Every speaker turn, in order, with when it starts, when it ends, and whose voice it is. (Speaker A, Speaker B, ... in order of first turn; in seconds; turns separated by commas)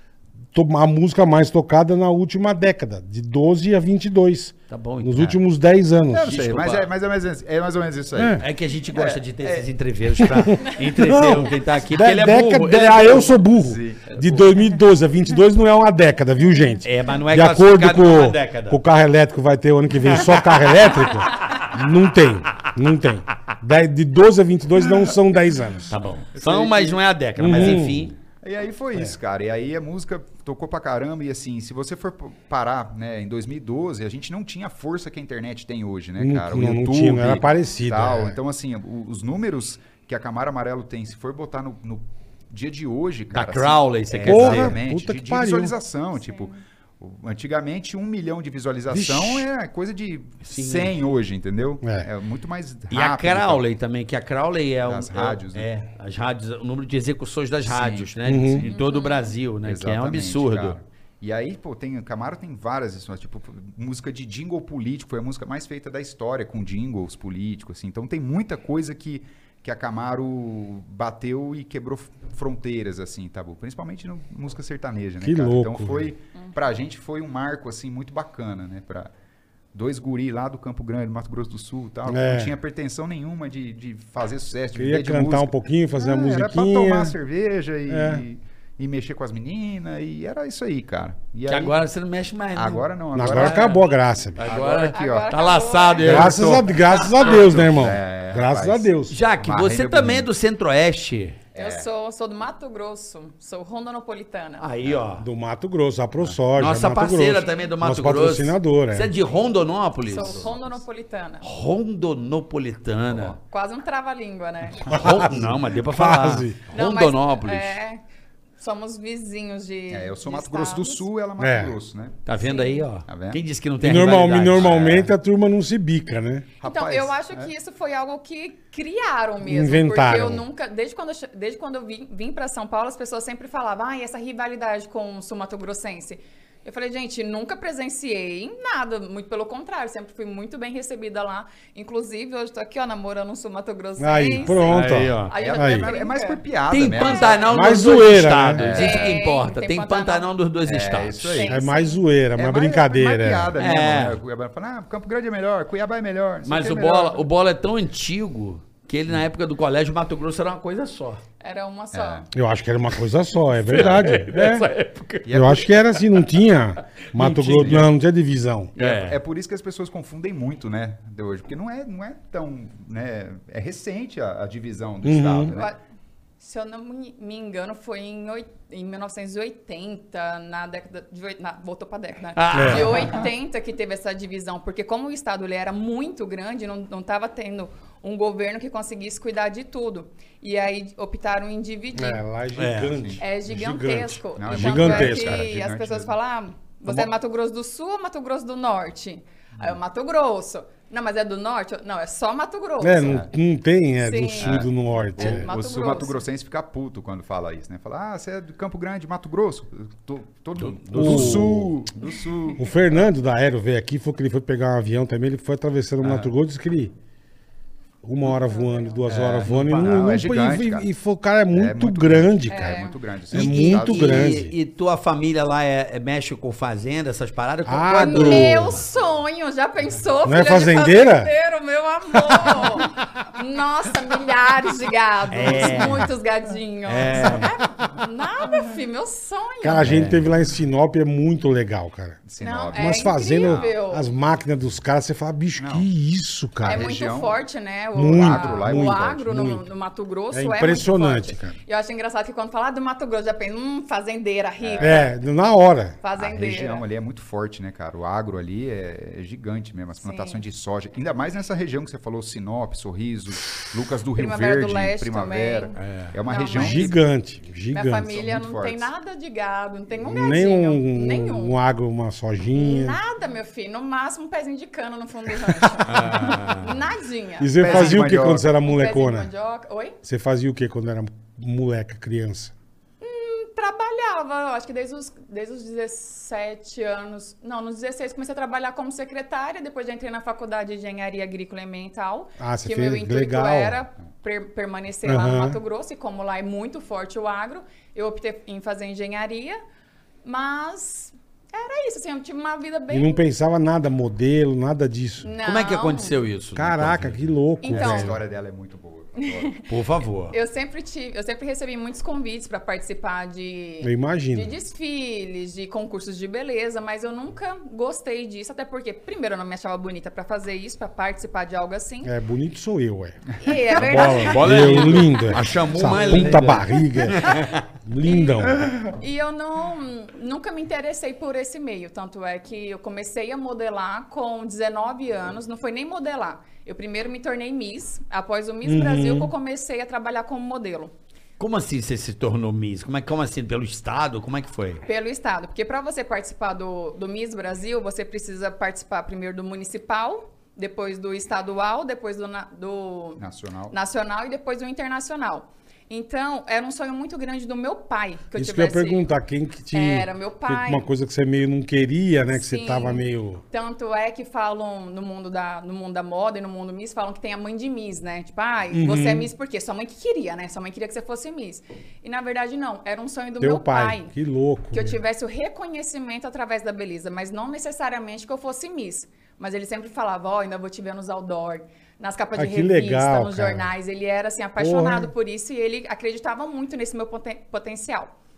Speaker A: 0.5-6.3, Speaker B: 4.7-5.4, Speaker C: 6.1-9.7, Speaker B: 6.2-6.9, Speaker A: 8.1-8.4, Speaker B: 8.4-13.4, Speaker A: 10.2-25.9, Speaker C: 13.6-14.7, Speaker B: 16.8-18.8, Speaker B: 20.1-21.6, Speaker B: 25.9-28.1, Speaker C: 26.3-27.8, Speaker A: 27.4-28.1, Speaker C: 28.4-53.6, Speaker A: 36.2-38.4, Speaker B: 43.3-44.8, Speaker A: 44.2-45.7, Speaker D: 46.2-46.6, Speaker A: 48.9-49.5, Speaker B: 50.4-50.9, Speaker A: 51.8-52.1, Speaker B: 52.9-60.8, Speaker C: 54.8-55.7, Speaker C: 57.6-58.1, Speaker A: 58.2-58.7, Speaker D: 58.6-59.3, Speaker C: 59.6-79.1, Speaker A: 75.2-76.1, Speaker C: 79.7-91.7, Speaker A: 82.1-82.5, Speaker A: 84.8-87.2, Speaker A: 87.9-88.2, Speaker B: 91.5-93.8, Speaker C: 92.5-93.8, Speaker A: 93.1-94.5, Speaker B: 94.3-97.7, Speaker C: 94.4-95.4, Speaker D: 94.9-96.5, Speaker C: 95.9-100.3, Speaker A: 96.0-99.2, Speaker B: 99.1-101.4, Speaker C: 101.5-101.8, Speaker D: 101.5-104.7, Speaker B: 104.6-105.2, Speaker A: 105.2-109.1, Speaker B: 106.5-110.5, Speaker D: 107.3-107.7, Speaker D: 110.1-111.5, Speaker C: 110.1-110.8, Speaker B: 111.4-113.4, Speaker C: 113.1-113.3, Speaker D: 113.5-115.1, Speaker B: 114.8-117.8, Speaker A: 114.9-116.6, Speaker D: 116.7-118.0, Speaker D: 118.6-121.0, Speaker C: 119.9-122.2, Speaker A: 121.4-121.7, Speaker B: 122.2-125.1, Speaker D: 122.4-122.9, Speaker C: 123.1-123.4, Speaker A: 123.8-126.5, Speaker C: 126.6-127.5, Speaker D: 126.6-147.5, Speaker A: 129.4-130.4, Speaker A: 144.0-145.9, Speaker C: 144.4-144.8, Speaker B: 144.7-145.3, Speaker C: 145.3-149.2, Speaker B: 146.7-151.4, Speaker A: 147.5-148.6, Speaker D: 148.6-150.3, Speaker C: 150.6-151.6, Speaker D: 151.2-152.0, Speaker A: 151.5-153.6, Speaker C: 152.3-157.2, Speaker B: 153.6-154.2, Speaker B: 156.4-161.2, Speaker D: 161.4-162.2, Speaker C: 161.9-162.3, Speaker A: 162.3-164.7, Speaker B: 163.6-165.9, Speaker C: 163.7-164.0, Speaker C: 165.2-166.0, Speaker A: 165.3-168.7, Speaker B: 167.1-167.9, Speaker C: 167.4-167.9, Speaker B: 168.8-169.2, Speaker C: 168.8-175.7, Speaker A: 175.0-175.5, Speaker D: 175.5-175.8, Speaker D: 176.4-192.2, Speaker B: 182.3-183.2, Speaker A: 182.5-183.0, Speaker A: 191.9-195.4, Speaker B: 192.6-193.0, Speaker C: 192.9-193.2, Speaker D: 193.2-203.2, Speaker C: 194.3-196.1, Speaker A: 202.8-205.5, Speaker D: 204.0-206.2, Speaker C: 204.4-212.7, Speaker B: 210.6-211.7, Speaker A: 210.9-211.7, Speaker A: 212.6-216.9, Speaker A: 218.0-224.5, Speaker D: 218.3-219.0, Speaker C: 219.1-220.9, Speaker B: 219.4-220.1, Speaker C: 221.5-224.3, Speaker D: 222.5-223.0, Speaker B: 223.3-228.8, Speaker A: 227.7-228.8, Speaker D: 228.0-239.9, Speaker A: 230.2-231.3, Speaker A: 232.1-232.8, Speaker B: 235.3-236.1, Speaker B: 236.8-237.5, Speaker A: 239.6-242.2, Speaker B: 239.8-240.3, Speaker C: 242.3-243.7, Speaker D: 242.4-244.1, Speaker A: 242.7-246.9, Speaker C: 245.6-245.9, Speaker C: 246.6-247.4, Speaker D: 246.6-255.1, Speaker A: 247.9-249.7, Speaker C: 248.1-249.2, Speaker A: 250.3-251.6, Speaker C: 254.6-255.0, Speaker A: 254.8-256.0, Speaker D: 256.0-256.8, Speaker C: 256.1-267.0, Speaker D: 260.0-260.4, Speaker D: 264.1-266.9, Speaker B: 265.8-266.1, Speaker A: 266.5-268.2, Speaker D: 267.7-271.6, Speaker C: 268.1-268.9, Speaker A: 270.0-273.0, Speaker D: 272.5-280.0, Speaker B: 275.8-276.7, Speaker A: 277.4-279.3, Speaker C: 277.6-278.5, Speaker A: 280.0-282.5, Speaker D: 283.0-299.6, Speaker A: 292.4-293.8, Speaker A: 295.0-295.6, Speaker D: 300.2-303.2, Speaker A: 302.9-305.3, Speaker D: 305.2-306.2, Speaker B: 305.4-307.3, Speaker A: 306.6-308.2, Speaker D: 307.6-308.2, Speaker C: 307.7-309.5, Speaker D: 309.2-309.6, Speaker B: 309.7-310.4, Speaker D: 310.3-322.1, Speaker A: 313.8-314.5, Speaker A: 322.0-328.6, Speaker D: 323.4-325.3, Speaker B: 323.9-327.6, Speaker D: 328.0-340.9, Speaker A: 338.6-339.3, Speaker B: 341.4-344.8, Speaker D: 344.8-359.1, Speaker C: 353.2-353.7, Speaker A: 358.3-363.4, Speaker D: 359.7-360.9, Speaker D: 362.3-374.1, Speaker A: 368.7-369.3, Speaker A: 373.4-375.0, Speaker D: 374.7-388.1, Speaker A: 382.3-383.7, Speaker A: 384.6-385.1